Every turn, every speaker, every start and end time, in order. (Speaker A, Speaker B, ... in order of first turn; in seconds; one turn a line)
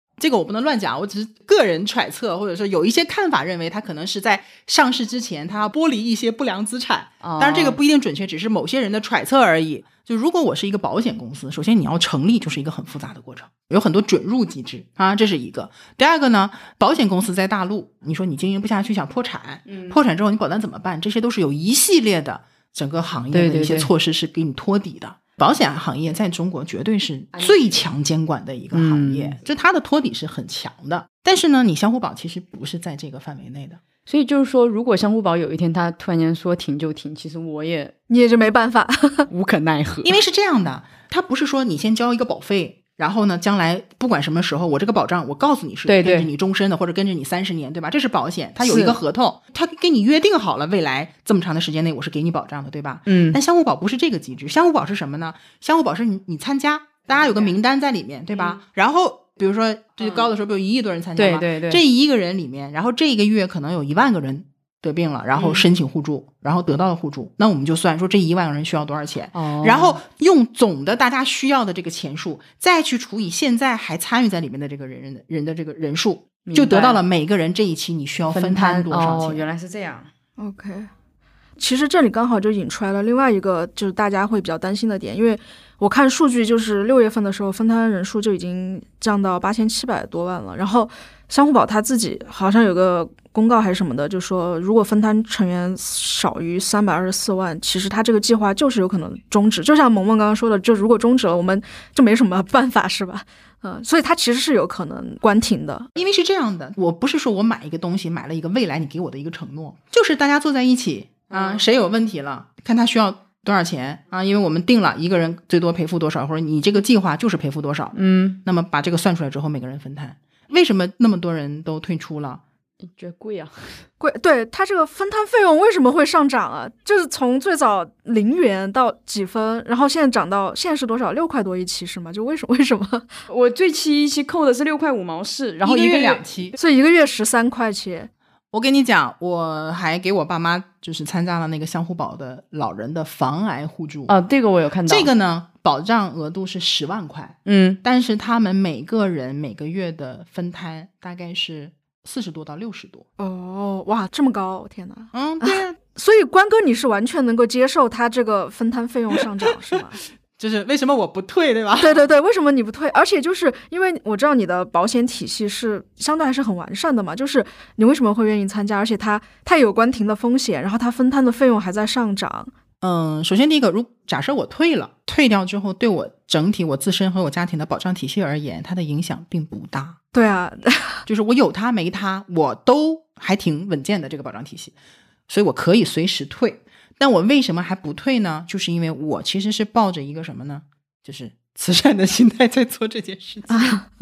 Speaker A: 0.2-33.8
Speaker B: 7.2-7.8
Speaker B: 19.7-20.0
Speaker B: 23.3-23.9
Speaker B: 27.3-27.8
Speaker B: 28.7-29.4
Speaker B: 34.1-37.9
Speaker C: 38.1-39.3
Speaker B: 39.3-40.2
Speaker A: 40.0-79.4
Speaker B: 45.9-46.3
Speaker B: 48.6-49.0
Speaker B: 53.1-53.4
Speaker B: 57.1-57.5
Speaker B: 61.2-61.8
Speaker B: 65.4-65.6
Speaker B: 69.3-70.0
Speaker B: 76.5-77.0
Speaker B: 78.3-80.1
Speaker C: 80.4-80.9
Speaker C: 81.6-105.9
Speaker A: 106.0-122.4
Speaker B: 111.3-111.6
Speaker B: 118.0-118.4
Speaker B: 122.9-123.9
Speaker C: 124.0-133.1
Speaker B: 133.3-136.4
Speaker A: 135.6-136.6
Speaker C: 136.6-138.1
Speaker A: 138.5-144.1
Speaker B: 144.1-145.1
Speaker A: 144.9-153.1
Speaker B: 147.5-147.8
Speaker C: 153.2-160.0
Speaker A: 155.1-155.8
Speaker A: 160.4-162.0
Speaker C: 161.8-172.5
Speaker A: 172.8-180.0
Speaker C: 180.1-181.1
Speaker A: 181.1-184.7
Speaker A: 185.3-193.8
Speaker C: 193.5-193.9